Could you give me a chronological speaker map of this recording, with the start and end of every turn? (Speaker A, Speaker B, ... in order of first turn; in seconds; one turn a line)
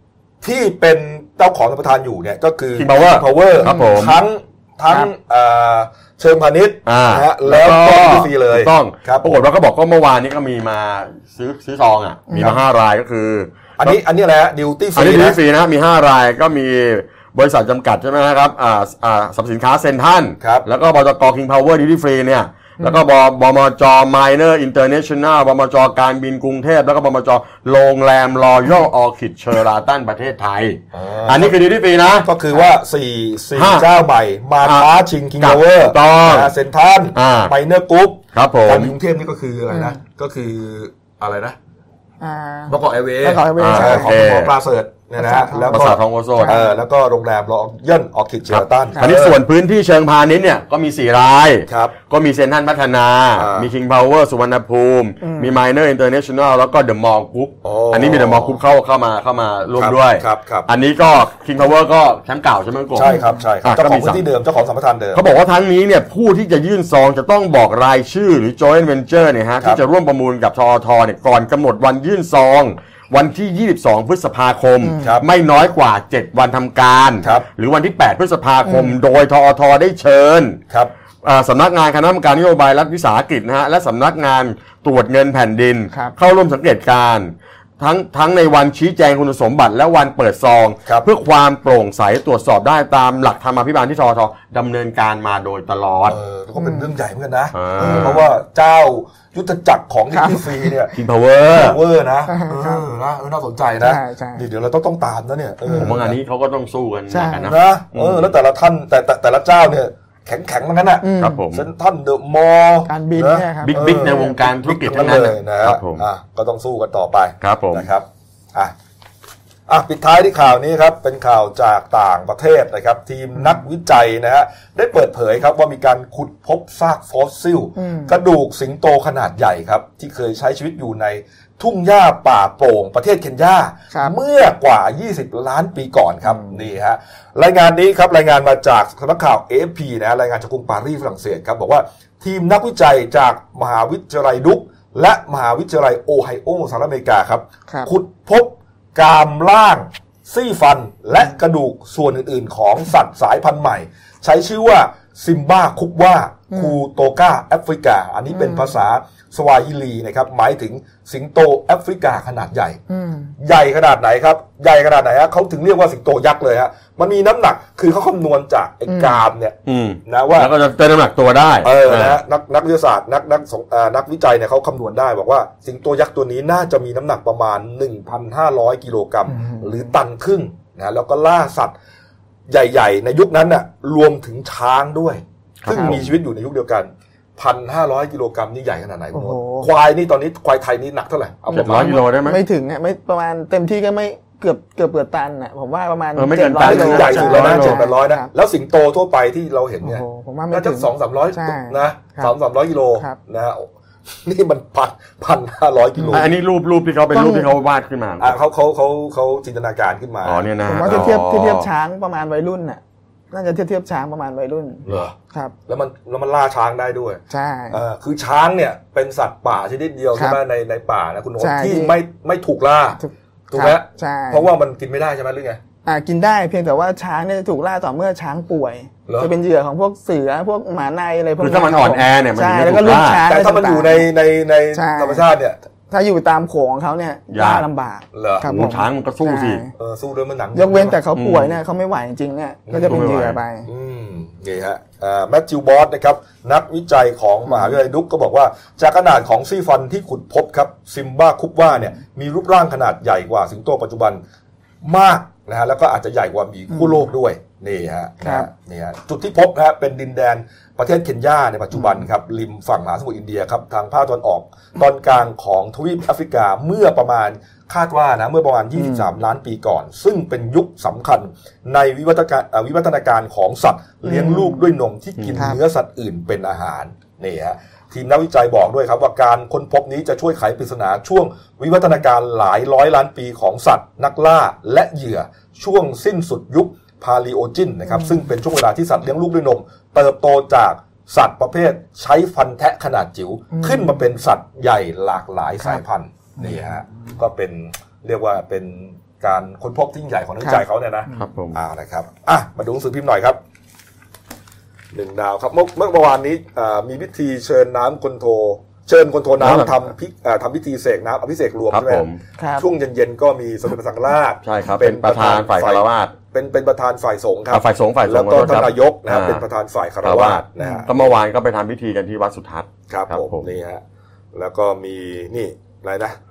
Speaker A: 0.4-9.4
Speaker B: 2.8-4.2
Speaker C: 3.6-4.0
Speaker B: 6.8-14.0
Speaker C: 12.3-12.6
Speaker A: 13.8-15.4
Speaker B: 14.9-32.3
Speaker A: 20.4-20.6
Speaker A: 30.9-31.6
Speaker A: 32.2-41.5
Speaker B: 33.5-33.9
Speaker B: 34.6-36.5
Speaker B: 37.1-37.5
Speaker B: 38.3-38.9
Speaker C: 39.7-40.0
Speaker C: 42.2-44.1
Speaker A: 42.7-49.4
Speaker B: 43.6-44.5
Speaker C: 45.2-46.8
Speaker B: 45.7-46.6
Speaker B: 48.5-64.2
Speaker C: 49.0-49.2
Speaker A: 51.7-51.9
Speaker A: 53.4-53.7
Speaker C: 55.2-55.5
Speaker A: 57.6-58.6
Speaker A: 59.7-60.7
Speaker A: 62.9-65.2
Speaker C: 63.0-63.4
Speaker B: 65.1-80.6
Speaker C: 74.8-75.1
Speaker A: 75.0-75.2
Speaker A: 77.2-77.5
Speaker C: 78.6-79.0
Speaker B: 81.2-96.2
Speaker A: 96.1-101.0
Speaker C: 96.6-96.9
Speaker B: 97.5-98.2
Speaker C: 97.8-98.3
Speaker C: 100.1-100.6
Speaker B: 100.9-101.8
Speaker A: 101.5-106.2
Speaker C: 102.3-102.8
Speaker C: 103.8-104.4
Speaker C: 105.7-105.9
Speaker B: 105.7-108.3
Speaker C: 107.1-107.5
Speaker A: 107.4-118.7
Speaker C: 111.0-111.4
Speaker B: 111.2-111.7
Speaker C: 112.9-114.4
Speaker B: 113.6-116.0
Speaker B: 117.4-117.9
Speaker A: 119.7-162.8
Speaker C: 127.8-128.2
Speaker C: 136.2-136.6
Speaker C: 156.5-156.8
Speaker C: 158.3-158.7
Speaker C: 162.9-163.3
Speaker A: 163.4-170.5
Speaker C: 168.9-169.2
Speaker B: 169.7-172.2
Speaker A: 171.6-181.7
Speaker C: 179.3-179.7
Speaker A: 182.5-192.0
Speaker B: 185.6-186.2
Speaker C: 185.7-186.0
Speaker C: 189.1-189.7
Speaker C: 191.5-198.3
Speaker B: 191.5-192.4
Speaker B: 196.1-197.8
Speaker A: 196.6-203.7
Speaker C: 199.8-202.3
Speaker A: 204.2-206.3
Speaker C: 206.0-206.3
Speaker B: 206.1-208.3
Speaker C: 207.1-207.5
Speaker A: 208.2-211.2
Speaker B: 210.2-211.7
Speaker C: 210.6-215.5
Speaker A: 214.8-215.1
Speaker A: 215.7-223.0
Speaker C: 217.3-217.8
Speaker C: 221.4-221.9
Speaker C: 223.0-224.4
Speaker A: 223.5-225.6
Speaker C: 225.8-234.1
Speaker A: 229.1-229.3
Speaker B: 231.4-233.2
Speaker A: 233.2-235.6
Speaker C: 234.7-235.2
Speaker C: 235.9-239.7
Speaker B: 237.3-237.7
Speaker A: 238.1-238.7
Speaker B: 238.4-239.7
Speaker A: 239.8-241.0
Speaker C: 240.5-243.7
Speaker B: 241.1-241.6
Speaker A: 242.7-254.2
Speaker B: 242.8-243.4
Speaker C: 247.5-247.7
Speaker A: 254.8-303.4
Speaker C: 256.7-257.0
Speaker C: 258.2-258.5
Speaker C: 268.8-269.1
Speaker C: 274.1-274.6
Speaker C: 293.5-294.0
Speaker C: 296.4-296.7
Speaker C: 300.4-301.2
Speaker B: 301.1-301.6
Speaker A: 304.9-321.2
Speaker B: 309.4-309.7
Speaker B: 311.7-312.2
Speaker C: 312.4-312.6
Speaker B: 314.4-316.1
Speaker B: 317.5-319.4
Speaker B: 320.0-323.5
Speaker C: 320.6-320.9
Speaker A: 322.9-323.8
Speaker A: 324.3-326.2